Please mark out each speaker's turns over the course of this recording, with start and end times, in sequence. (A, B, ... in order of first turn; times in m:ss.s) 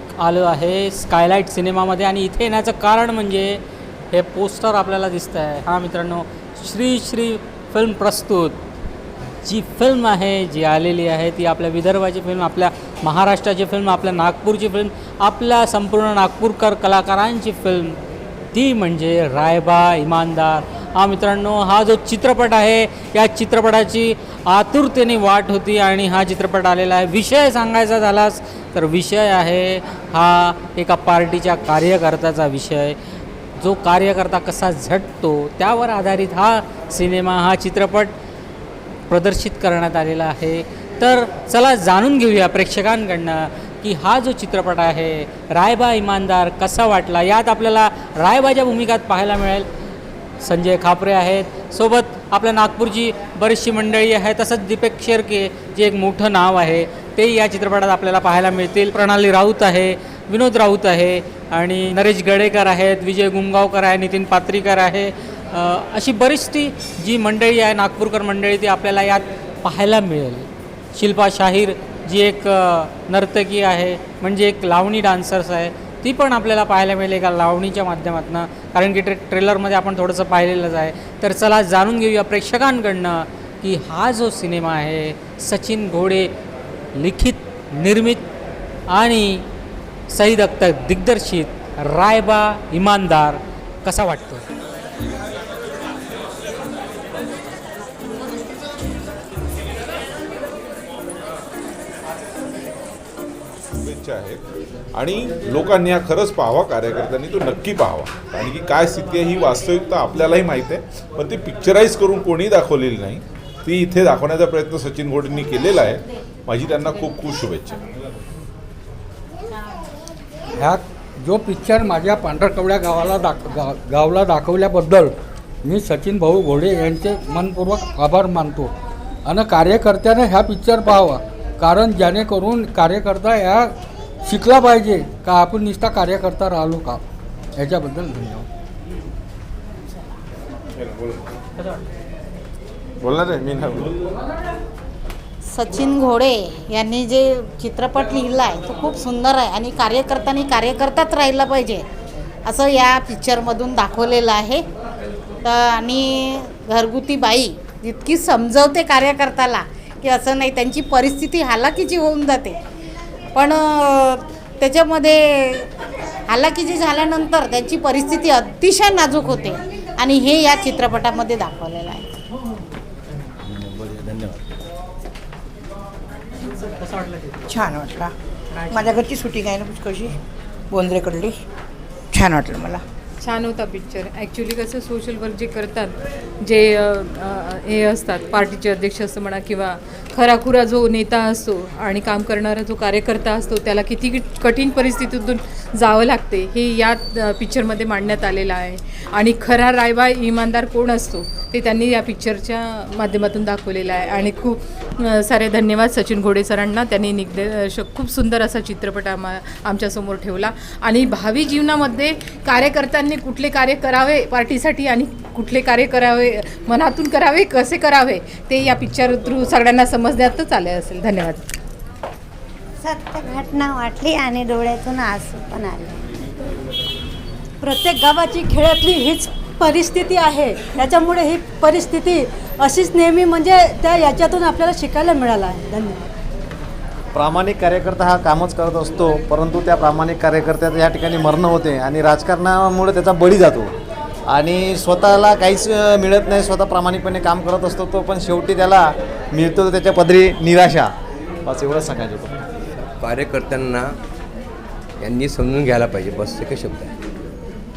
0:00.2-0:03.6 A
0:04.1-0:08.6 A
0:09.4-0:18.0 A
0:18.5-0:33.0 A
0:33.6-0:38.1 A
0:39.1-0:49.7 A
0:50.4-1:26.3 A
1:27.0-1:28.2 A
1:28.9-1:29.4 A
1:30.1-1:34.4 A
1:43.8-1:44.4 B
1:44.9-1:57.8 B
2:00.6-2:08.7 C
2:09.2-2:13.7 C
2:14.2-2:17.0 C
2:17.6-2:18.4 C
2:25.5-2:31.8 D
2:32.4-2:34.6 D
2:35.4-2:42.6 D
2:43.3-2:45.7 D
2:46.3-2:52.1 D
2:57.5-2:58.1 E
2:58.7-3:00.1 E
3:00.7-3:01.4 E
3:02.1-3:02.8 E
3:03.2-3:41.5 F
3:42.8-3:45.9 G
3:47.6-3:56.0 H
3:57.1-4:03.7 I
4:04.3-4:10.9 I
4:11.4-4:12.3 I
4:13.0-4:13.9 J
4:15.0-4:16.9 J